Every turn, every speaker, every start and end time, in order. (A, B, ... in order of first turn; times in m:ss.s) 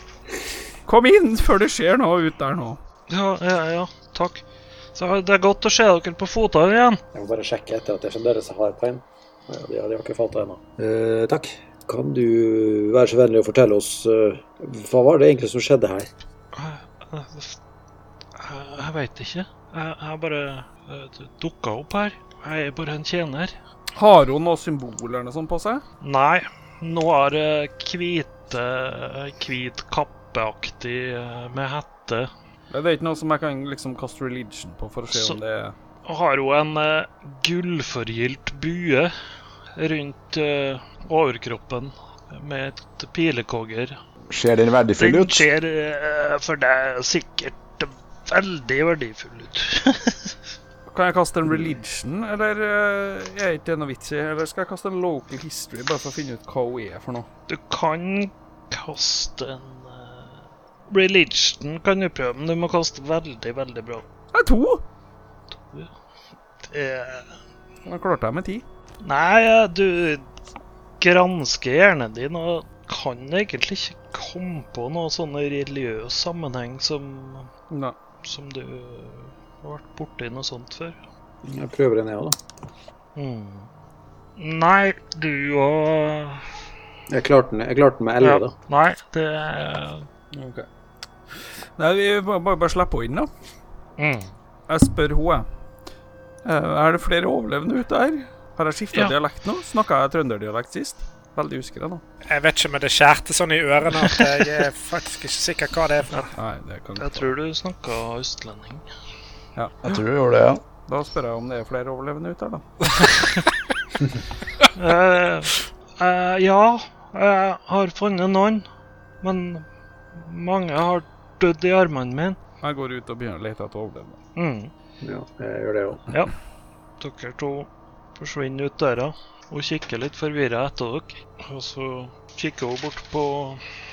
0:00.8-0:02.8 A
0:03.1-0:04.4 B
0:05.0-0:07.0 B
0:07.1-0:16.1 C
0:16.5-0:17.6 B
0:18.4-0:23.5 B
0:24.0-0:25.8 A
0:26.0-0:32.3 B
0:32.7-0:35.7 A
0:35.1-0:35.4 B
0:36.0-0:39.1 B
0:39.8-0:44.0 B
0:44.3-0:45.4 D
0:45.0-0:50.3 B
0:50.9-0:57.3 A
0:57.5-1:04.0 B
1:04.3-1:04.8 A
1:05.5-1:05.9 B
1:06.6-1:07.4 B
1:07.8-1:08.6 A
1:09.0-1:10.3 B
1:11.0-1:17.5 B
1:17.7-1:17.9 A
1:18.2-1:21.0 B
1:21.4-1:22.4 C
1:23.2-1:23.7 B
1:24.4-1:26.5 B
1:27.1-1:28.5 C
1:28.2-1:30.1 B
1:30.3-1:30.6 A
1:31.8-1:33.3 A
1:34.0-1:34.3 B
1:34.7-1:35.4 A
1:36.4-1:42.0 A
1:42.3-1:46.3 E
1:46.3-1:47.3 A
1:47.0-1:48.8 B
1:49.8-1:50.6 D
1:50.9-1:52.6 A
1:54.7-1:58.6 B
1:59.2-2:02.4 B
2:02.6-2:04.2 A
2:04.4-2:04.7 B
2:05.0-2:06.1 C
2:07.0-2:13.6 B